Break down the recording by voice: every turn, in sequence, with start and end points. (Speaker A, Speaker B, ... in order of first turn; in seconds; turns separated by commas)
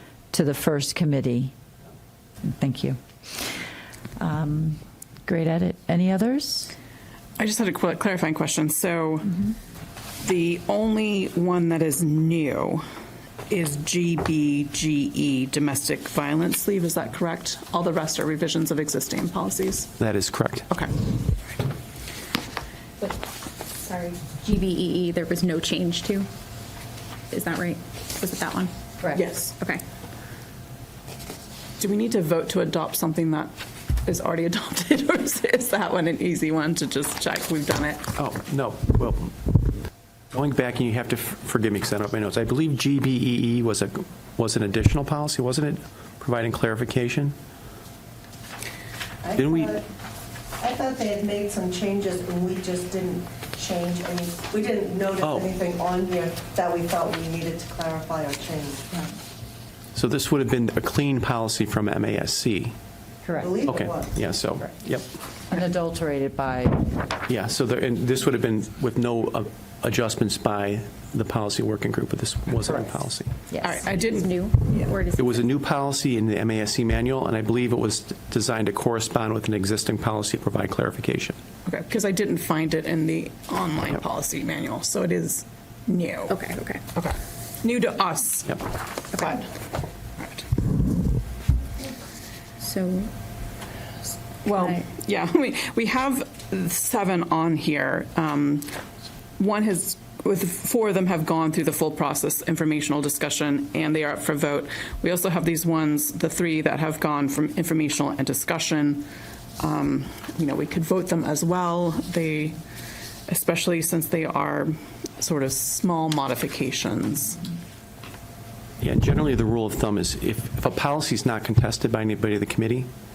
Speaker A: 0.3-1.5, Speaker A: 2.4-3.0, Speaker A: 4.2-6.7, Speaker B: 7.4-9.5, Speaker B: 10.2-12.8, Speaker B: 13.5-19.9, Speaker C: 20.0-20.7, Speaker D: 23.8-26.3, Speaker D: 27.3-28.7, Speaker B: 29.1-29.5, Speaker D: 29.5-29.8, Speaker B: 31.8-33.5, Speaker B: 34.0-38.1, Speaker C: 38.1-39.7, Speaker C: 40.3-47.3, Speaker E: 49.2-49.8, Speaker C: 49.4-49.7, Speaker E: 50.6-58.9, Speaker C: 55.2-55.5, Speaker C: 59.9-62.7, Speaker A: 63.2-63.5, Speaker E: 63.4-64.2, Speaker C: 63.6-65.1, Speaker A: 65.5-67.0, Speaker C: 67.3-73.4, Speaker D: 73.6-75.5, Speaker B: 73.6-74.9, Speaker C: 75.2-81.4, Speaker B: 81.6-86.4, Speaker D: 86.3-86.8, Speaker B: 86.9-89.5, Speaker B: 90.2-90.5, Speaker D: 92.6-93.1, Speaker B: 94.4-98.8, Speaker B: 99.4-109.1, Speaker B: 109.6-112.6, Speaker B: 113.3-117.5, Speaker C: 118.8-122.9